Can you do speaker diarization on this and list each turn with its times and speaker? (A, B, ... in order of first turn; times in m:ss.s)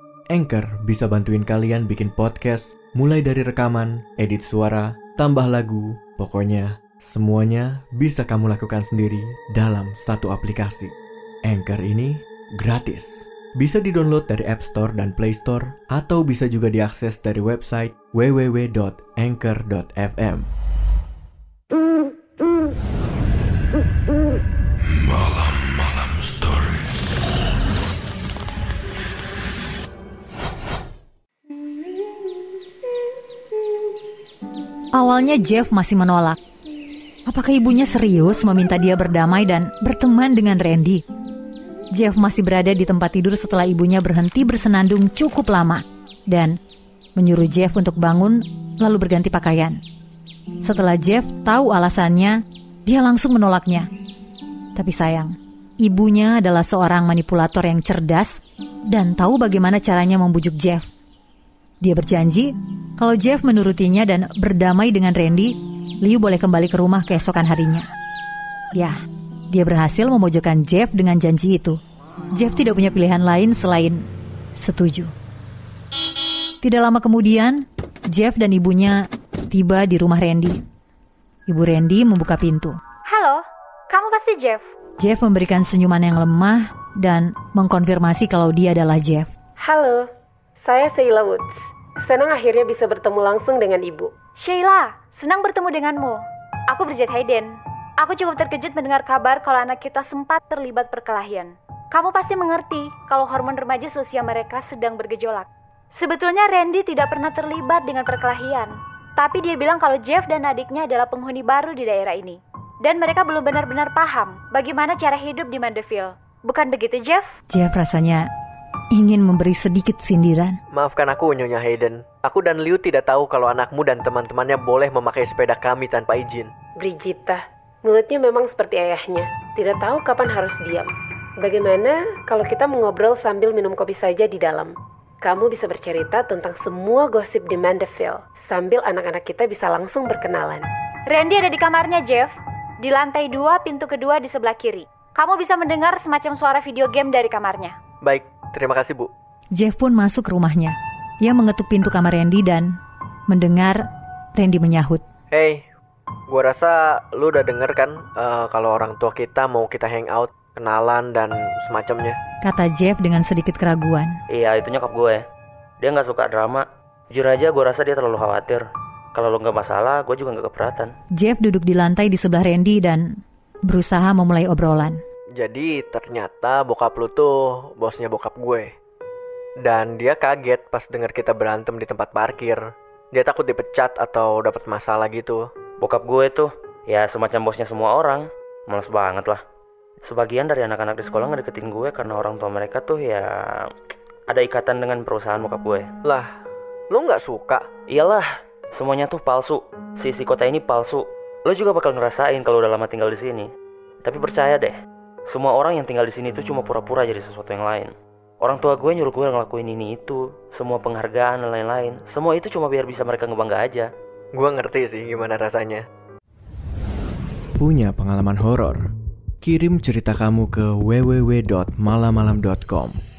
0:00.3-0:20.5 A
0:34.9-0:36.4 B
0:37.3-0:41.0 B
0:41.9-0:46.5 B
0:47.2-0:49.8 B
0:50.6-0:53.9 B
0:54.7-1:00.9 B
1:01.8-1:07.9 B
1:09.5-1:11.8 B
1:12.3-1:15.1 B
1:16.6-1:20.6 B
1:21.5-1:22.8 B
1:23.1-1:24.6 C
1:25.0-1:29.3 B
1:29.6-1:30.1 D
1:30.6-1:34.1 D
1:34.4-1:57.3 C
1:57.5-1:58.3 B
1:58.9-2:00.6 B
2:00.7-2:06.5 E
2:06.8-2:20.7 D
2:21.1-2:27.7 C
2:28.0-2:29.1 E
2:29.5-2:32.8 B
2:33.3-2:35.0 B
2:35.3-2:35.6 E
2:36.3-2:42.2 E
2:42.4-2:44.1 B
2:44.3-2:45.2 F
2:45.8-2:50.9 F
2:51.2-2:55.0 B
2:55.4-2:58.7 E
2:59.6-3:02.6 E
3:03.1-3:05.4 E
3:05.8-3:09.4 F
3:10.0-3:13.7 F
3:14.3-3:15.9 F
3:16.9-3:17.6 E
3:17.9-3:23.5 F
3:24.0-3:24.8 F
3:25.3-3:33.9 F
3:34.3-3:35.8 E
3:37.6-3:38.9 A
3:39.4-3:43.0 A